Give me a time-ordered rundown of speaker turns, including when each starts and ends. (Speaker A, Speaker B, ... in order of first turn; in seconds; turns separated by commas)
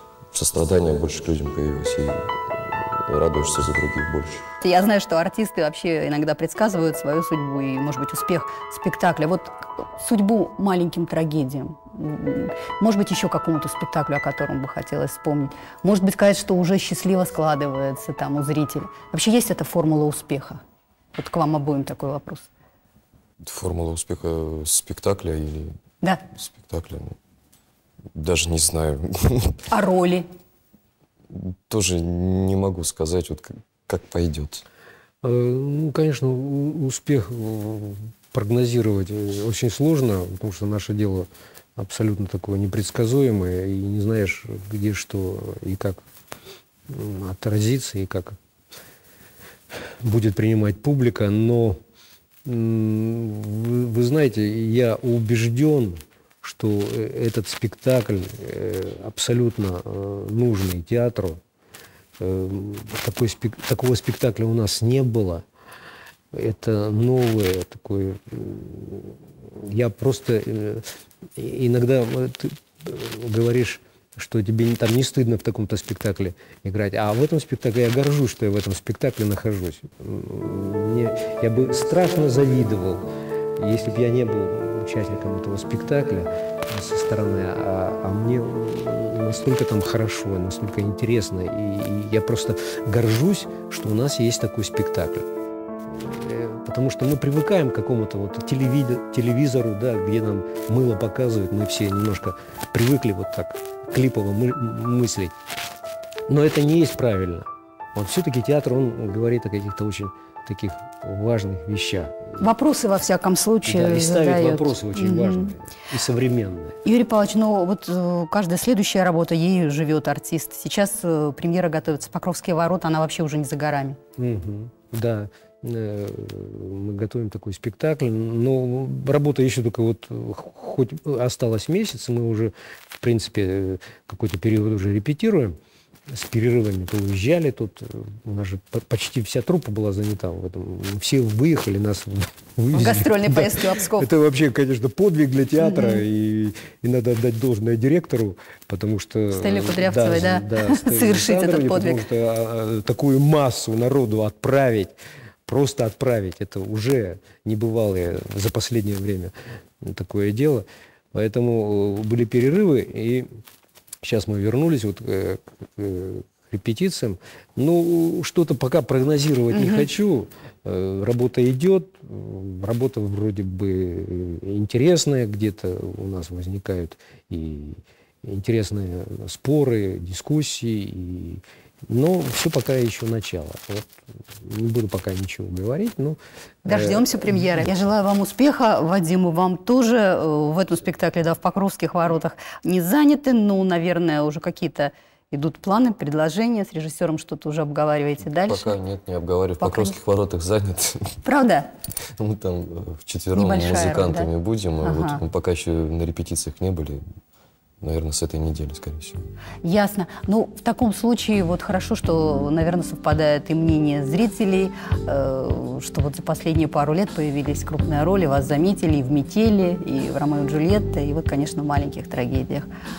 Speaker A: 0.3-4.5, Speaker B: 4.6-20.6, Speaker B: 21.1-22.5, Speaker A: 23.4-25.7, Speaker A: 26.3-27.2, Speaker A: 28.1-29.6, Speaker B: 29.7-30.3, Speaker A: 31.3-34.6, Speaker C: 35.2-46.0, Speaker C: 46.9-48.4, Speaker C: 50.0-51.8, Speaker C: 52.5-61.4, Speaker C: 62.2-65.5, Speaker C: 66.3-83.0, Speaker C: 83.6-95.3, Speaker C: 95.9-105.3, Speaker C: 106.3-112.4, Speaker B: 112.4-115.5, Speaker C: 113.6-116.8, Speaker B: 116.8-124.0, Speaker C: 124.2-135.6, Speaker C: 136.1-154.9, Speaker B: 142.7-144.1, Speaker B: 145.6-146.0, Speaker B: 149.3-152.0, Speaker C: 155.5-163.3, Speaker C: 164.0-187.6, Speaker B: 169.5-169.9, Speaker B: 186.7-198.7, Speaker A: 198.4-201.2, Speaker B: 199.6-200.0, Speaker B: 201.2-201.7, Speaker A: 202.2-207.0, Speaker B: 203.3-204.3, Speaker B: 204.8-205.2, Speaker A: 207.8-209.3, Speaker B: 209.6-222.7